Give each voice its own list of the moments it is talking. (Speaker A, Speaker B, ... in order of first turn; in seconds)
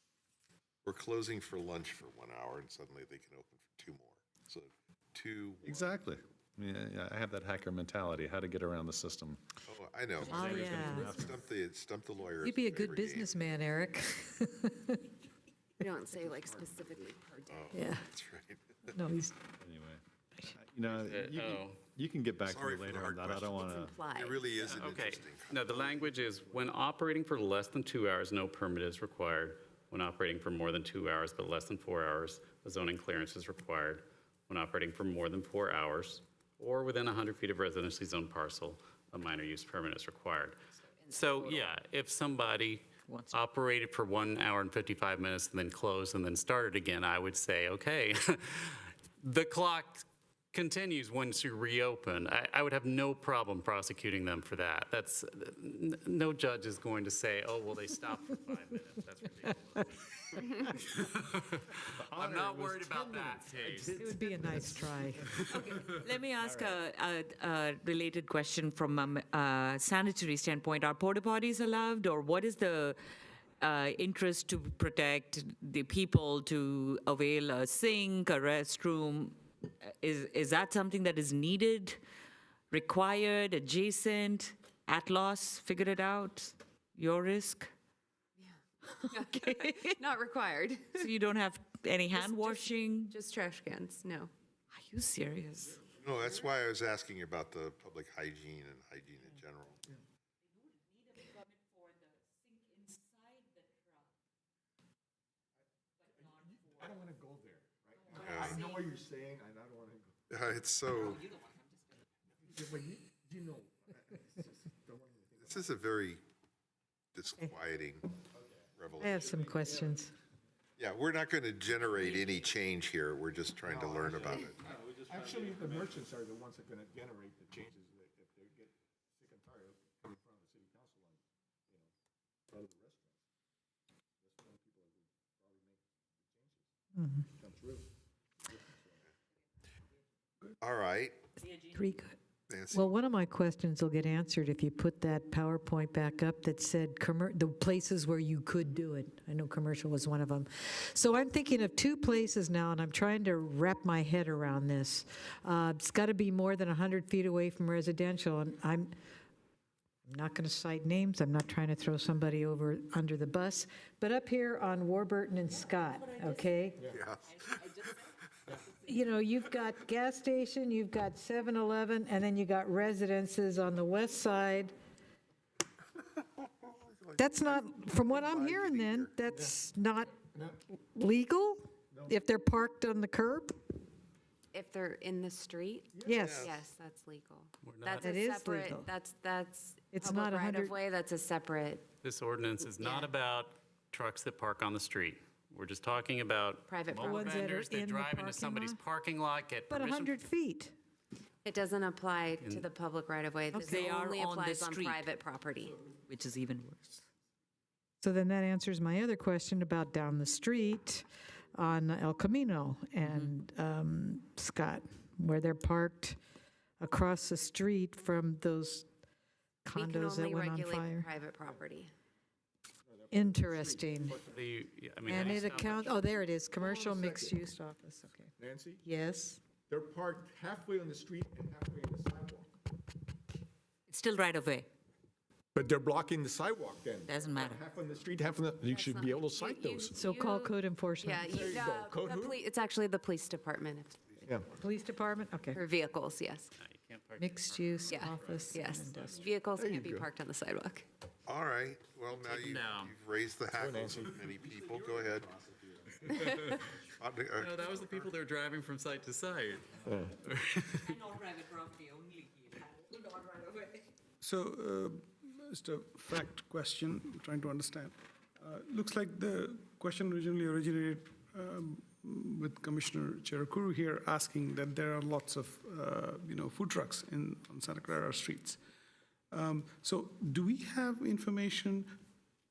Speaker A: 0.8-6.0, 9.7-13.4, 17.5-18.9, 22.4-25.9, 96.0-99.8, 108.1-108.7, 110.3-111.3, 115.4-116.2, 117.1-118.1, 118.7-119.3, 120.8-124.7, 140.6-141.2, 142.5-142.9, 166.9-167.8, 176.7-179.1, 186.2-186.6, 251.3-255.3, 257.0-258.1
Speaker B: 5.8-9.4, 10.2-11.5, 19.6-24.0
Speaker C: 10.3-11.2, 12.4-15.0, 17.7-18.1, 18.9-19.4, 63.9-65.3, 119.0-120.1, 137.0-137.2, 141.6-142.2, 142.7-158.9, 160.1-166.8, 168.8-174.7, 177.2-180.2, 180.9-183.5, 186.1-186.5, 188.0-188.9, 189.9-190.8, 196.9-198.8, 199.7-200.8, 203.5-203.8, 208.0-216.2, 216.8-218.9, 219.6-221.1, 223.1-224.2, 225.1-228.3, 228.8-229.4, 239.9-241.6, 244.6-245.6, 247.2-249.2
Speaker D: 15.8-17.8, 23.5-24.9, 88.4-91.1, 92.1-94.3, 184.5-191.9, 192.8-193.1, 196.7-197.4, 201.4-205.8, 219.7-221.9, 238.6-244.0, 245.5-246.5, 247.9-250.8
Speaker E: 16.1-17.1, 25.9-26.7, 61.9-66.8, 106.1-110.2, 112.4-115.8, 123.6-131.9, 132.5-133.2, 134.2-136.7, 137.3-137.9, 138.4-139.1, 179.3-179.6, 180.2-180.6, 181.9-182.2, 185.9-186.3, 222.8-224.5, 225.1-225.8, 226.5-227.4, 228.4-228.8, 229.7-232.5, 235.6-240.0, 241.3-242.4, 244.2-244.5, 249.6-250.1, 253.5-254.9, 259.9-260.1
Speaker F: 20.9-21.8, 24.7-40.6, 41.1-65.6, 187.6-188.1, 192.0-200.2, 202.4-202.7, 224.3-226.0, 246.6-249.3, 252.1-252.9, 256.1-256.6, 257.3-261.0
Speaker G: 41.1-41.7, 43.1-43.4, 65.5-73.0, 73.6-82.0, 82.7-87.7, 89.3-89.9, 91.0-93.1, 94.7-95.8, 203.6-205.1, 206.1-207.0, 213.0-213.3, 233.9-234.7, 237.1-237.6, 260.9-263.8
Speaker H: 264.2-278.6, 279.3-281.9